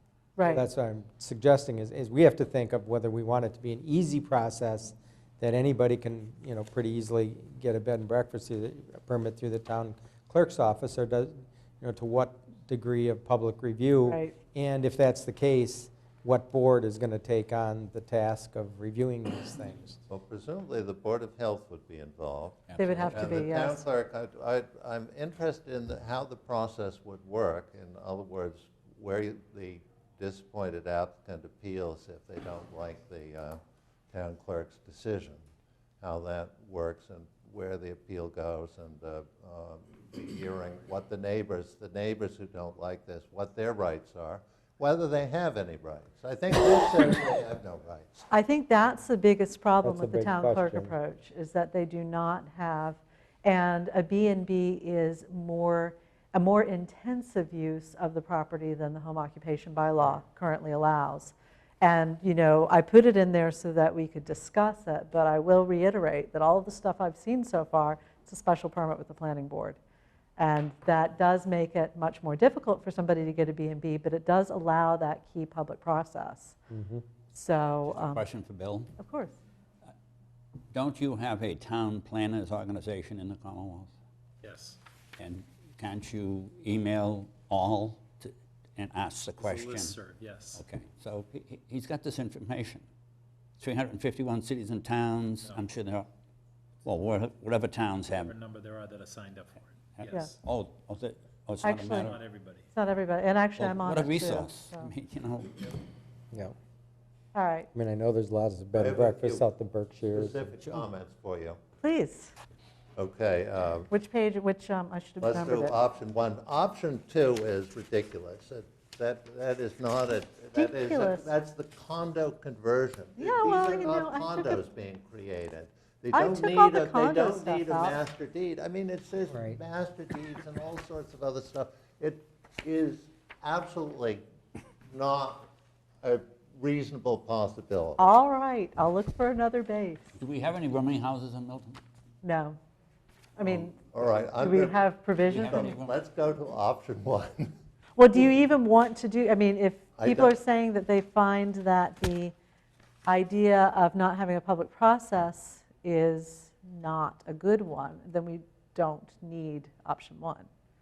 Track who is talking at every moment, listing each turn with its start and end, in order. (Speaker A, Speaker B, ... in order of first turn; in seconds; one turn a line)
Speaker A: 0.4-0.7
Speaker B: 0.5-20.0
Speaker A: 14.1-14.4
Speaker C: 20.1-33.6
Speaker D: 22.7-23.3
Speaker A: 22.8-23.9
Speaker C: 34.1-35.4
Speaker C: 36.0-48.3
Speaker A: 48.3-69.8
Speaker B: 49.8-50.9
Speaker A: 70.4-76.6
Speaker B: 76.7-77.0
Speaker A: 77.3-78.2
Speaker D: 77.8-78.9
Speaker A: 79.0-79.4
Speaker D: 80.7-83.9
Speaker E: 84.4-84.8
Speaker D: 85.2-90.0
Speaker E: 89.4-90.7
Speaker D: 90.5-92.8
Speaker D: 93.6-96.1
Speaker D: 96.8-98.3
Speaker E: 98.1-100.4
Speaker D: 100.0-102.2
Speaker A: 101.6-102.1
Speaker E: 101.9-102.7
Speaker A: 102.7-104.9
Speaker D: 103.6-105.7
Speaker A: 107.3-107.7
Speaker B: 107.7-110.8
Speaker C: 108.8-109.5
Speaker C: 110.1-111.6
Speaker A: 111.8-112.3
Speaker C: 113.0-113.9
Speaker A: 113.9-115.8
Speaker C: 115.2-134.2
Speaker A: 120.5-121.3
Speaker A: 123.2-124.6
Speaker A: 126.1-128.0
Speaker B: 129.3-129.6
Speaker C: 134.9-135.5
Speaker C: 136.0-138.0
Speaker A: 138.0-140.1
Speaker D: 140.2-141.8
Speaker A: 142.2-142.6
Speaker A: 143.4-145.8
Speaker C: 143.4-147.5
Speaker D: 145.3-146.0
Speaker A: 148.0-152.3
Speaker C: 150.0-150.3
Speaker A: 153.1-160.5